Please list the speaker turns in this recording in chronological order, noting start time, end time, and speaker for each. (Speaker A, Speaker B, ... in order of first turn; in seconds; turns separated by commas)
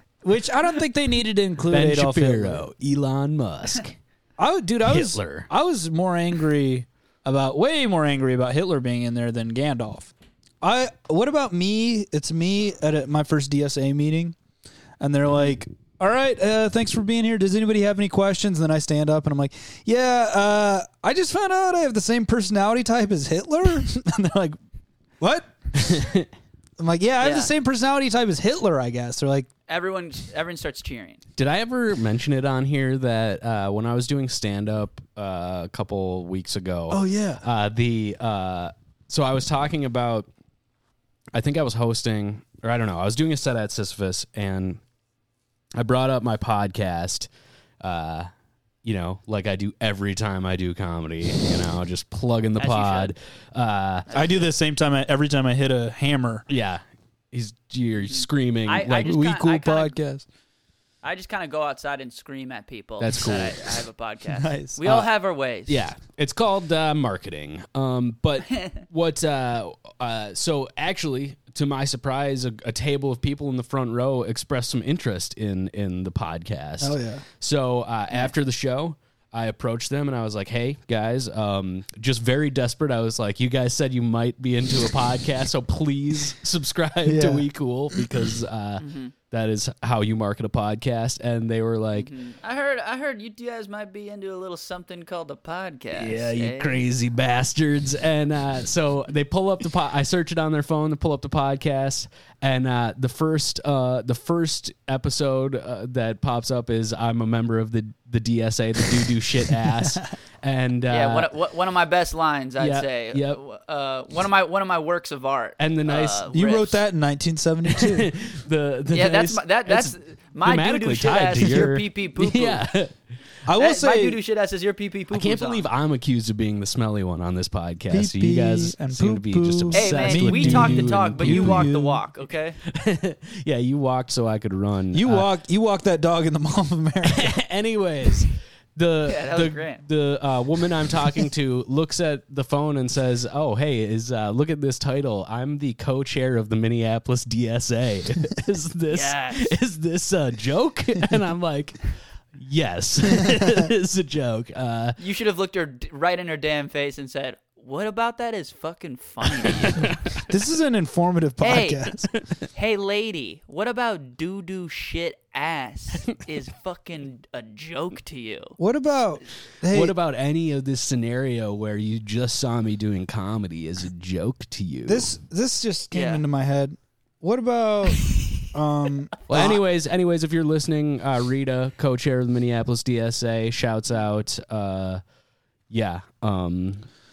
Speaker A: 0.2-2.6, Speaker B: 1.7-4.0, Speaker A: 4.4-14.3, Speaker B: 4.8-5.5, Speaker A: 15.0-24.6, Speaker A: 25.2-26.1, Speaker B: 25.8-26.3, Speaker A: 26.8-29.5, Speaker C: 27.2-27.5, Speaker C: 29.7-31.2, Speaker B: 31.4-40.3, Speaker A: 36.9-37.4, Speaker B: 41.3-44.8, Speaker B: 45.8-47.3, Speaker B: 47.8-48.3, Speaker B: 48.8-54.1, Speaker C: 52.6-53.1, Speaker C: 54.1-54.5, Speaker A: 54.1-56.4, Speaker B: 56.5-59.1, Speaker C: 58.0-60.0, Speaker A: 59.0-60.2, Speaker C: 61.0-65.9, Speaker B: 63.0-63.8, Speaker A: 64.3-64.8, Speaker B: 64.8-65.1, Speaker B: 65.7-92.1, Speaker A: 76.8-77.2, Speaker A: 87.0-87.5, Speaker C: 88.8-89.1, Speaker C: 91.9-96.8, Speaker B: 95.9-111.3, Speaker A: 109.5-110.0, Speaker C: 110.9-116.8, Speaker B: 112.6-113.4, Speaker B: 115.6-116.2, Speaker A: 116.3-118.1, Speaker B: 117.7-122.9, Speaker C: 118.9-122.6, Speaker A: 123.4-124.2, Speaker C: 123.6-125.6, Speaker B: 125.1-131.7, Speaker A: 127.9-132.0, Speaker C: 129.7-132.6, Speaker B: 132.6-135.3, Speaker A: 134.9-137.4, Speaker B: 137.0-155.0, Speaker C: 139.0-139.8, Speaker C: 148.9-149.5, Speaker A: 153.2-153.6, Speaker C: 155.0-160.0, Speaker B: 159.4-159.9, Speaker A: 160.3-162.1, Speaker C: 161.4-161.9, Speaker C: 162.5-168.6, Speaker A: 168.6-169.9, Speaker B: 169.7-175.1, Speaker A: 174.8-179.6, Speaker C: 175.9-176.2, Speaker C: 178.0-178.4, Speaker B: 179.3-185.0, Speaker B: 185.7-186.8